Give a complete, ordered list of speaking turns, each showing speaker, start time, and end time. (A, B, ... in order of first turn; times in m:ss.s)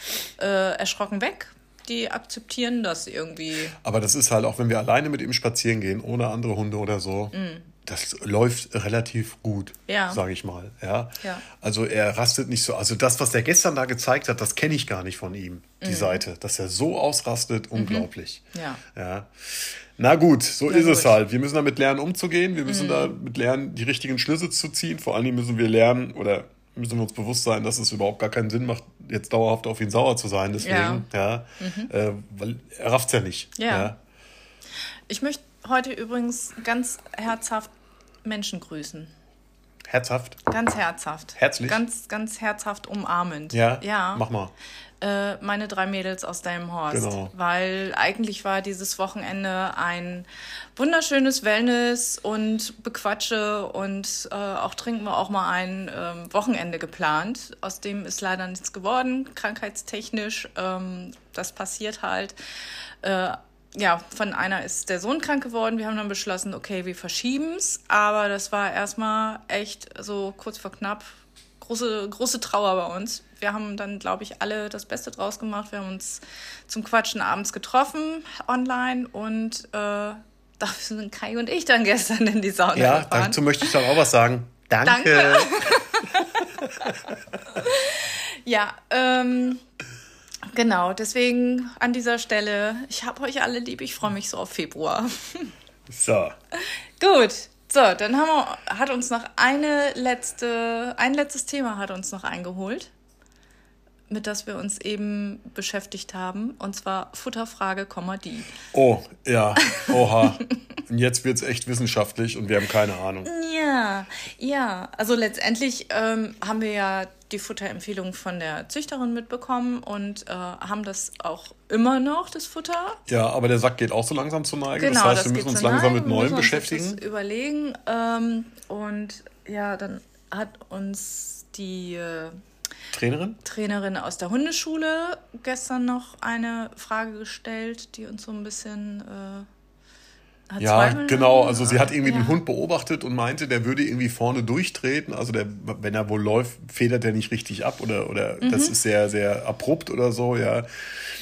0:00.4-0:03.8 A
0:03.8-0:18.4 B
0:07.3-0:07.7 A
0:09.9-0:10.2 A
0:15.8-0:16.2 A
0:17.8-0:18.8 A
0:19.0-0:34.0 B
0:20.7-0:21.2 A
0:22.7-0:23.1 A
0:30.6-0:31.1 A
0:31.6-0:31.9 A
0:33.6-0:33.9 A
0:35.1-0:37.7 A
0:38.2-0:39.1 A
0:39.9-0:40.4 B
0:40.5-0:44.2 A
0:41.4-0:41.8 B
0:43.5-0:44.5 B
0:45.0-1:02.4 A
0:46.9-0:47.3 B
1:03.0-1:23.8 A
1:22.8-1:25.6 B
1:24.8-1:26.9 A
1:26.5-1:27.2 B
1:27.5-1:29.6 A
1:30.5-1:35.5 A
1:35.9-1:36.4 B
1:36.6-1:42.9 A
1:44.1-1:48.5 A
1:48.7-1:53.3 B
1:53.2-2:03.0 A
2:03.1-2:07.0 B
2:04.8-2:12.4 A
2:12.9-2:13.4 B
2:13.4-2:19.5 A
2:20.5-2:22.4 A
2:20.6-2:30.7 B
2:28.4-2:28.7 A